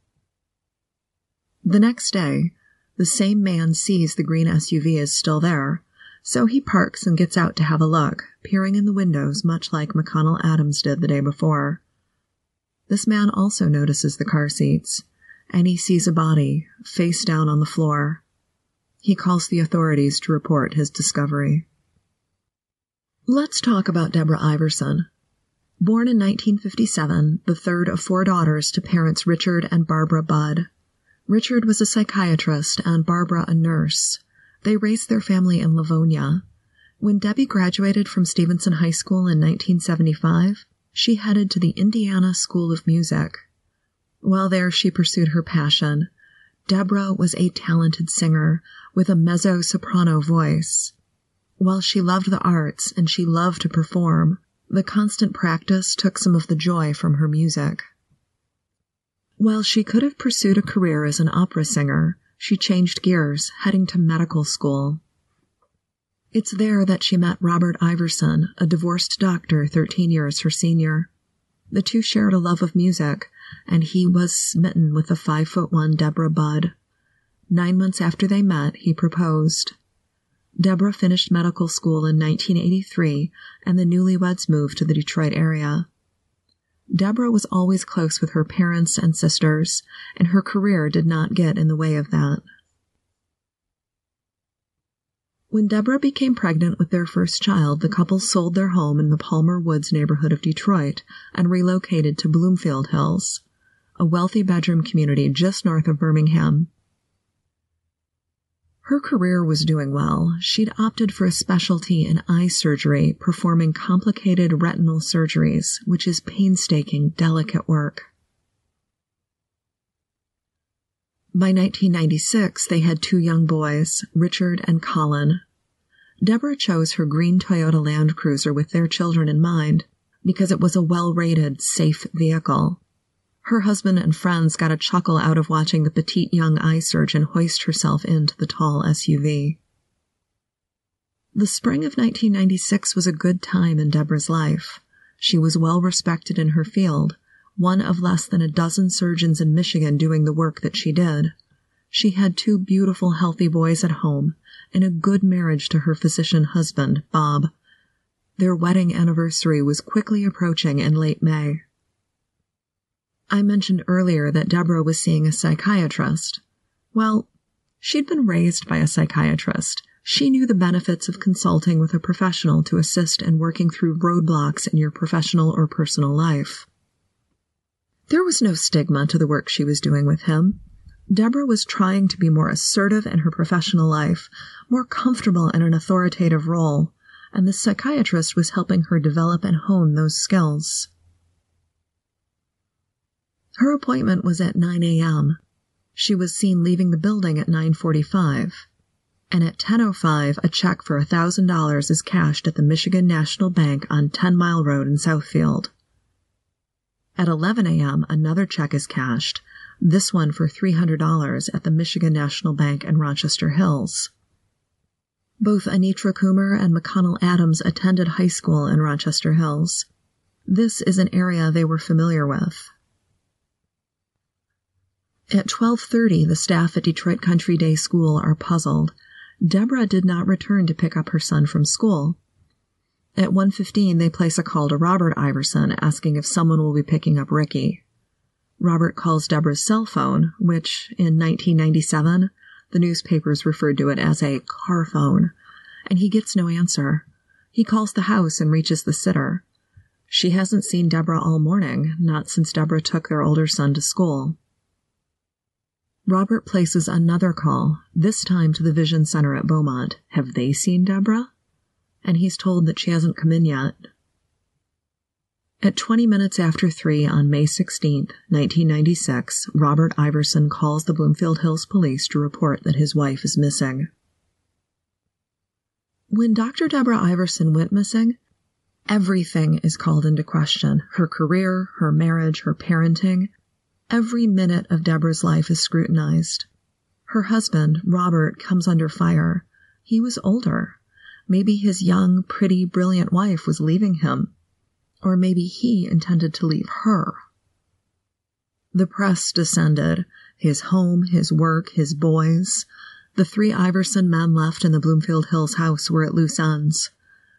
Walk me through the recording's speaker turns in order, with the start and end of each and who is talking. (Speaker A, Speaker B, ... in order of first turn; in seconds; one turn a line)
Speaker A: 1.6-11.8
Speaker A: 12.9-18.2
Speaker A: 19.0-21.7
Speaker A: 23.3-25.1
Speaker A: 25.8-30.7
Speaker A: 31.3-36.4
Speaker A: 37.0-43.5
Speaker A: 44.2-46.1
Speaker A: 46.7-50.9
Speaker A: 51.6-57.8
Speaker A: 59.4-65.0
Speaker A: 66.3-71.1
Speaker A: 71.7-76.7
Speaker A: 77.5-79.8
Speaker A: 80.6-85.9
Speaker A: 86.9-92.4
Speaker A: 95.5-103.4
Speaker A: 104.0-106.7
Speaker A: 108.8-118.1
Speaker A: 121.3-125.4
Speaker A: 126.2-132.8
Speaker A: 133.4-139.6
Speaker A: 141.3-151.3
Speaker A: 151.9-157.5
Speaker A: 158.4-161.6
Speaker A: 163.3-166.4
Speaker A: 166.9-167.3
Speaker A: 167.8-176.7
Speaker A: 178.1-180.6
Speaker A: 181.1-190.9
Speaker A: 193.6-195.4
Speaker A: 195.9-198.7
Speaker A: 199.3-205.7
Speaker A: 207.2-214.1
Speaker A: 215.4-219.9
Speaker A: 220.5-222.7
Speaker A: 225.3-232.2
Speaker A: 233.2-237.8
Speaker A: 238.6-245.3
Speaker A: 245.9-249.4
Speaker A: 250.1-254.4
Speaker A: 256.1-261.3
Speaker A: 262.0-263.9
Speaker A: 265.6-273.9
Speaker A: 276.1-278.2
Speaker A: 278.9-283.3
Speaker A: 283.9-286.5
Speaker A: 287.1-294.3
Speaker A: 295.0-297.2
Speaker A: 298.7-306.9